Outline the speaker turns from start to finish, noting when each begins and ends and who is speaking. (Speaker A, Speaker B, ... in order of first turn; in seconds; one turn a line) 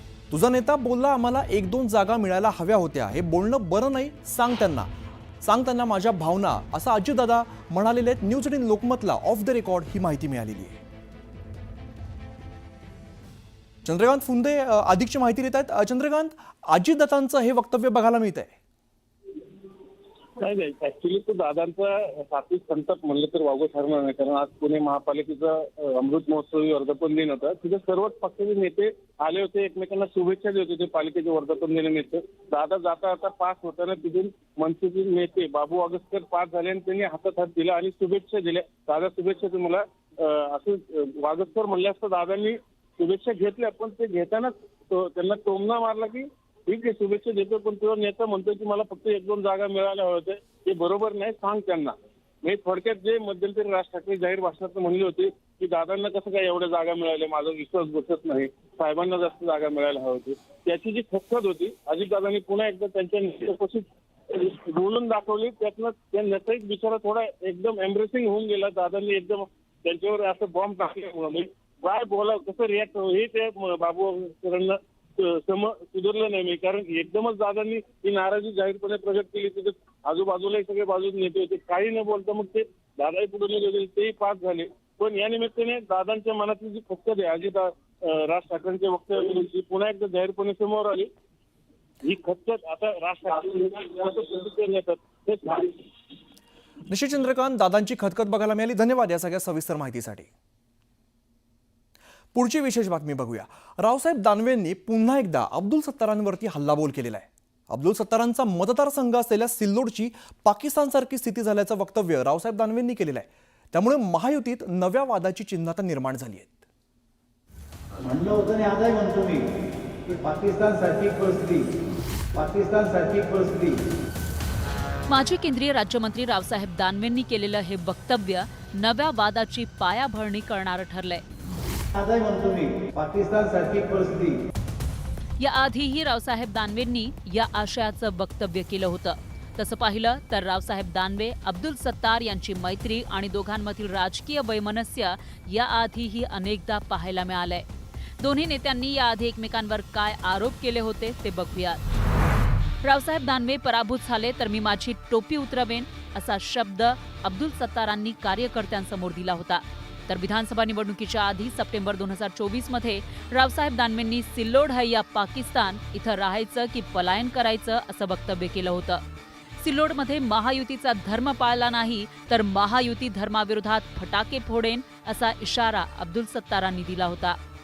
Speaker A: 0.3-4.9
Speaker A: 5.4-10.8
Speaker A: 13.8-18.5
Speaker B: 20.4-91.1
Speaker B: 92.0-95.8
Speaker A: 96.9-100.3
Speaker A: 102.3-116.6
Speaker C: 118.0-119.4
Speaker C: 120.0-121.7
Speaker C: 122.3-123.8
Speaker D: 125.1-131.2
Speaker C: 131.9-134.4
Speaker D: 135.4-147.7
Speaker D: 148.2-151.8
Speaker D: 152.8-169.0
Speaker D: 169.6-177.4